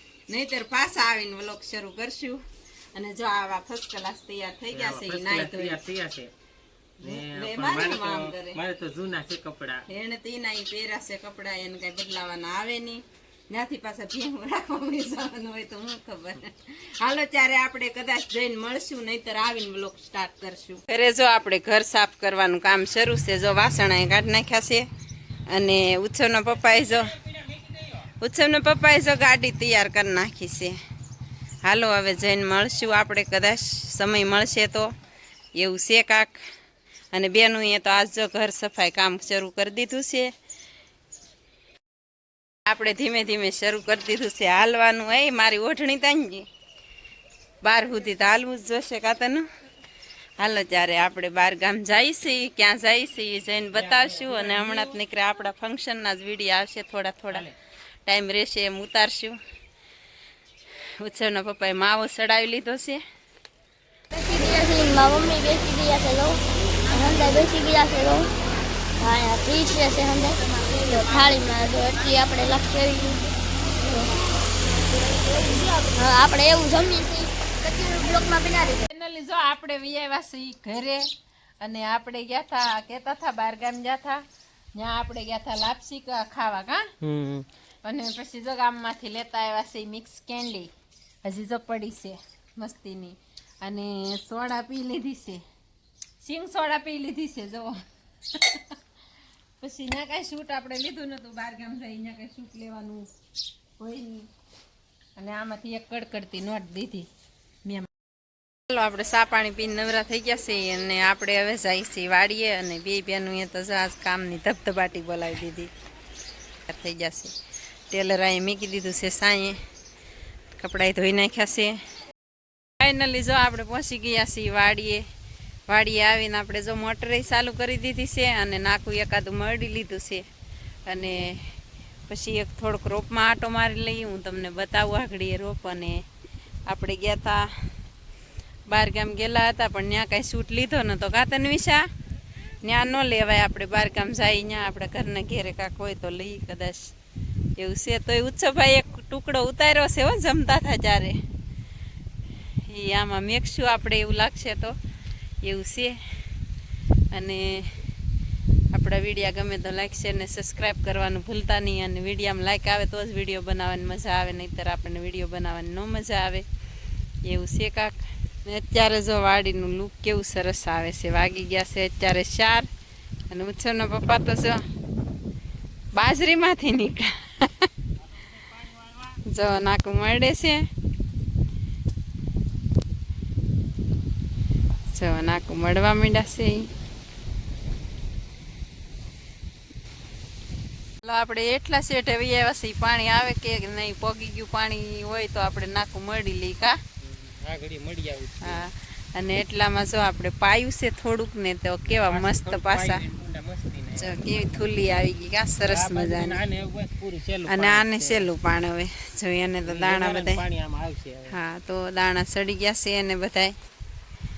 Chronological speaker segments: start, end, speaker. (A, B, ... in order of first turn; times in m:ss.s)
0:00.3-0:02.4 A
0:02.9-0:05.8 A
0:04.7-0:06.3 B
0:07.0-0:08.6 A
0:07.0-0:09.8 B
0:09.9-0:24.9 A
0:25.5-0:27.2 A
0:28.0-0:30.8 A
0:31.6-0:34.9 A
0:35.6-0:36.4 A
0:37.1-0:40.3 A
0:42.7-0:46.5 A
0:47.6-0:49.5 A
0:50.4-0:57.5 A
0:53.7-0:55.0 B
0:58.1-0:59.4 A
1:00.8-1:03.0 A
1:04.1-1:08.3 C
1:09.0-1:13.2 C
1:13.8-1:14.3 C
1:14.8-1:18.8 C
1:18.9-1:21.1 A
1:21.6-1:24.2 A
1:24.8-1:26.9 A
1:27.0-1:27.5 B
1:27.8-1:30.7 A
1:31.2-1:35.4 A
1:36.2-1:37.8 A
1:38.4-1:38.6 A
1:39.6-1:43.1 A
1:43.8-1:44.3 A
1:45.2-1:47.1 A
1:48.7-1:55.7 A
1:56.7-1:57.3 A
1:57.9-1:59.6 A
2:00.6-2:01.8 A
2:02.8-2:05.0 A
2:05.7-2:10.2 A
2:10.9-2:11.4 A
2:12.1-2:16.0 A
2:16.7-2:17.5 A
2:18.7-2:21.9 A
2:22.6-2:26.9 A
2:27.6-2:31.2 A
2:32.7-2:34.8 A
2:35.4-2:36.0 A
2:37.1-2:37.8 A
2:38.7-2:46.5 A
2:47.2-2:52.7 A
2:53.3-2:54.6 A
2:56.0-2:57.7 A
2:59.2-3:00.6 A
3:04.9-3:06.7 A
3:11.0-3:16.8 A
3:17.0-3:18.7 B
3:18.4-3:23.1 A
3:21.9-3:24.7 B
3:24.0-3:26.4 A
3:25.6-3:28.3 B
3:27.5-3:30.4 A
3:29.7-3:31.4 B
3:31.3-3:33.6 A